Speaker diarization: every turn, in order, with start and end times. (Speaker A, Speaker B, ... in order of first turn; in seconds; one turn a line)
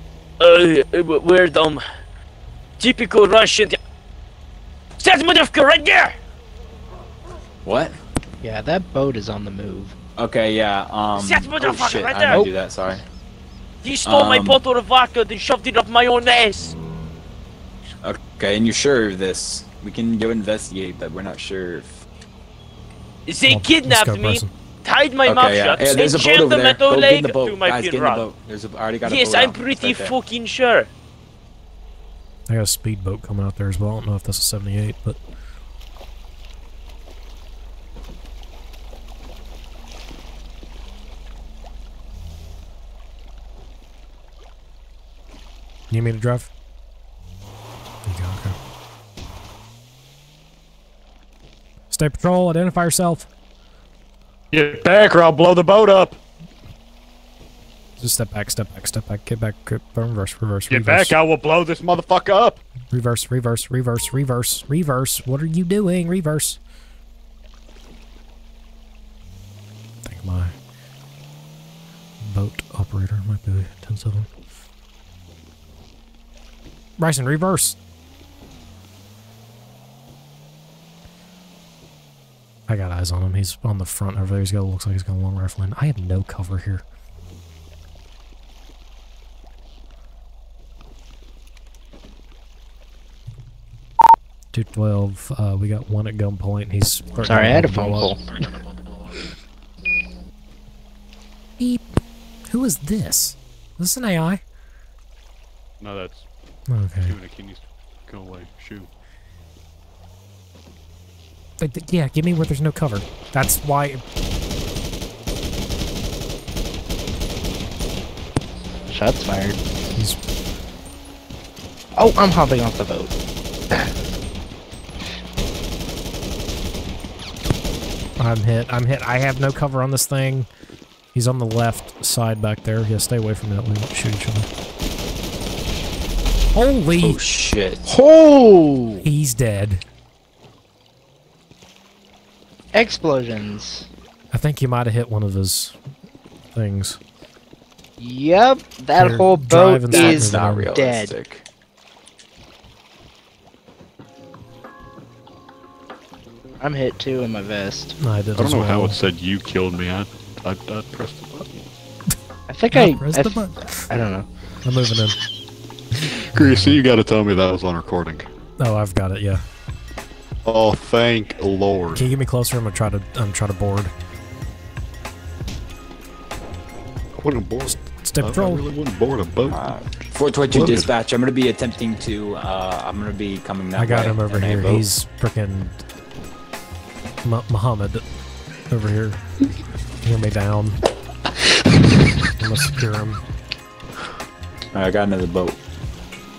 Speaker A: 0.4-1.8
Speaker A: 2.8-3.8
Speaker A: 5.0-6.1
Speaker B: 7.6-8.0
Speaker C: 8.4-9.9
Speaker B: 10.2-13.0
Speaker A: 11.1-12.5
Speaker A: 13.8-16.7
Speaker B: 14.1-14.6
Speaker B: 18.0-21.9
Speaker A: 23.3-28.3
Speaker D: 23.5-24.5
Speaker B: 25.2-30.1
Speaker A: 29.0-30.9
Speaker D: 32.5-35.2
Speaker D: 45.9-46.5
Speaker D: 48.0-48.5
Speaker D: 51.9-53.3
Speaker E: 54.5-56.2
Speaker D: 58.0-61.2
Speaker E: 60.7-62.6
Speaker D: 62.9-66.6
Speaker D: 70.0-70.5
Speaker D: 72.2-74.3
Speaker D: 77.0-77.8
Speaker D: 82.7-86.8
Speaker D: 94.5-98.1
Speaker C: 97.2-98.3
Speaker D: 101.6-102.0
Speaker D: 102.5-104.4
Speaker E: 105.8-106.3
Speaker D: 106.7-107.2
Speaker E: 107.0-108.9
Speaker D: 111.6-114.0
Speaker C: 118.9-119.6
Speaker C: 122.0-123.1
Speaker D: 128.2-130.5
Speaker D: 131.1-134.5
Speaker D: 136.5-137.2
Speaker B: 137.0-137.8
Speaker C: 137.8-139.1
Speaker D: 139.0-139.8
Speaker C: 142.7-143.9
Speaker D: 144.3-145.8
Speaker D: 146.5-147.0
Speaker C: 148.0-151.1
Speaker D: 148.9-150.7
Speaker B: 149.9-151.4
Speaker C: 156.6-157.9
Speaker D: 158.0-159.0
Speaker E: 158.4-161.6
Speaker C: 162.5-164.3
Speaker D: 162.7-163.6
Speaker D: 164.6-165.2
Speaker D: 166.3-166.8
Speaker E: 166.3-168.3
Speaker D: 168.6-169.4
Speaker E: 170.4-172.1
Speaker D: 171.9-173.9
Speaker E: 177.2-179.6
Speaker D: 177.9-178.6
Speaker B: 179.5-184.8
Speaker E: 180.5-180.9
Speaker D: 183.8-185.8
Speaker D: 187.2-188.0
Speaker D: 188.7-189.2
Speaker D: 190.0-190.8
Speaker D: 192.4-193.2
Speaker B: 194.7-195.6